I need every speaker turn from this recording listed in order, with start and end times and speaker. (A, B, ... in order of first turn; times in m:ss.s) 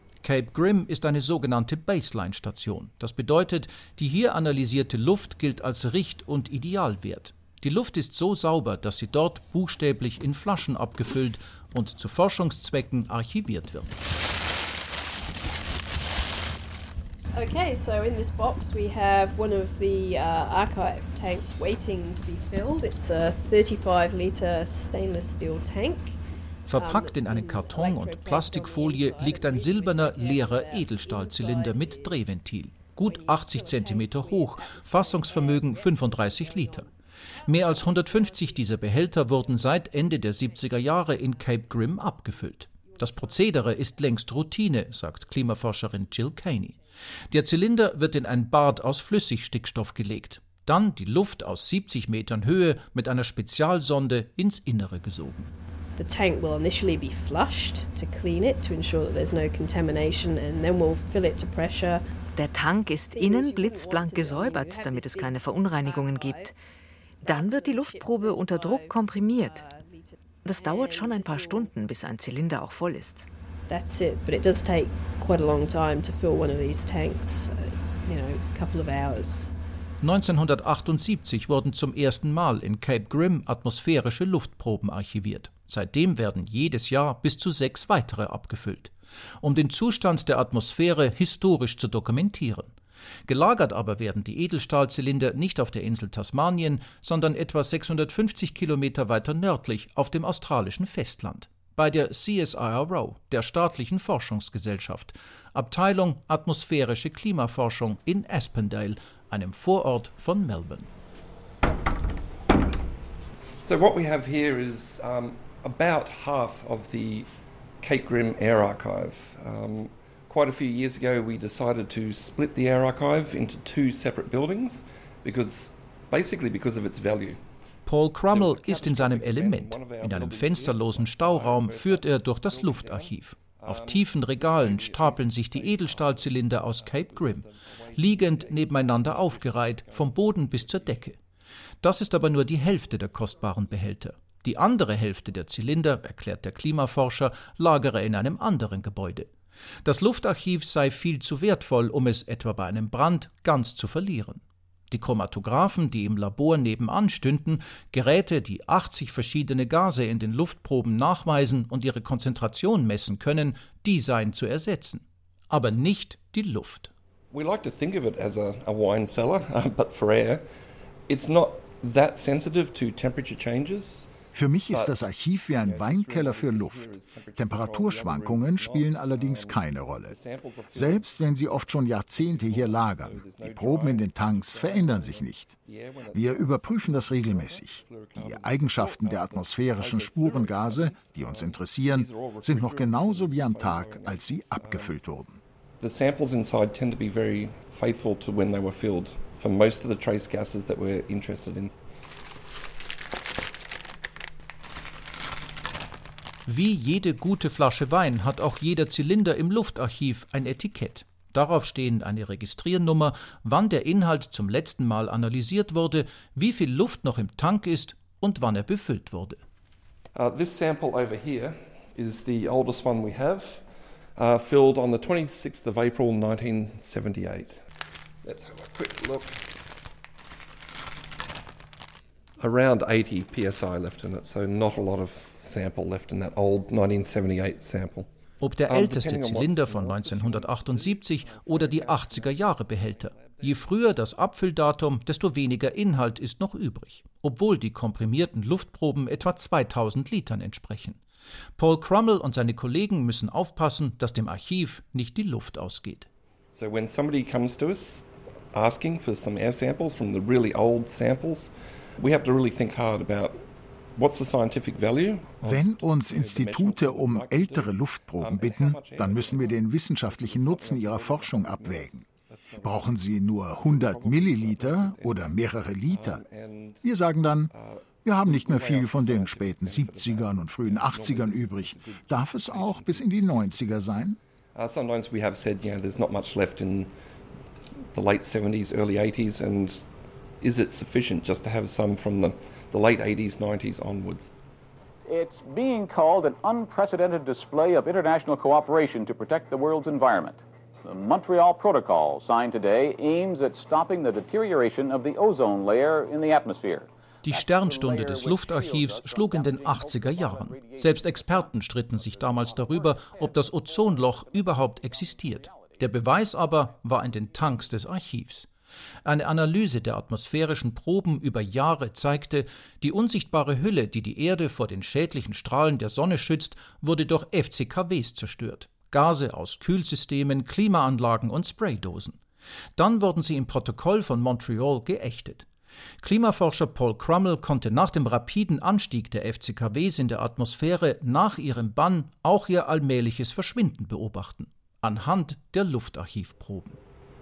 0:00.2-0:14.0 A
0:17.3-0:26.2 B
0:26.7-0:36.9 A
0:26.7-0:32.4 B
0:32.9-0:44.3 B
0:37.4-0:55.5 A
0:45.3-0:46.8 B
0:56.0-1:02.0 B
1:02.4-1:06.5 C
1:03.1-1:06.5 B
1:07.2-1:11.7 B
1:07.2-1:09.7 C
1:10.4-1:13.3 C
1:13.7-1:19.5 B
1:20.0-1:32.7 A
1:33.3-1:50.9 A
1:53.6-1:57.3 D
1:57.8-2:07.4 D
2:07.9-2:21.2 A
2:08.3-2:21.1 D
2:21.8-2:29.3 A
2:29.8-2:46.9 A
2:47.3-2:50.4 D
2:51.1-2:54.1 D
2:54.3-3:00.2 E
2:54.7-3:15.0 D
3:00.7-3:05.6 E
3:06.1-3:15.4 E
3:15.8-3:21.7 D
3:26.5-3:39.4 A
3:40.2-3:43.6 D
3:44.2-3:47.6 D
3:48.2-3:49.5 D
3:52.4-3:58.1 D
3:58.4-4:11.0 A
3:58.7-4:03.9 D
4:11.6-4:16.1 A
4:16.5-4:23.4 D
4:24.0-4:36.9 D
4:25.4-4:32.1 E
4:32.6-4:36.2 E
4:36.8-4:37.5 E
4:37.5-4:46.9 D
4:38.0-4:44.2 E
4:47.9-4:49.9 D
4:50.4-4:54.3 D
4:55.1-5:15.9 F
5:07.2-5:18.5 A
5:16.9-5:17.6 F
5:19.0-5:32.2 A
5:32.8-5:35.5 A
5:36.0-5:46.8 A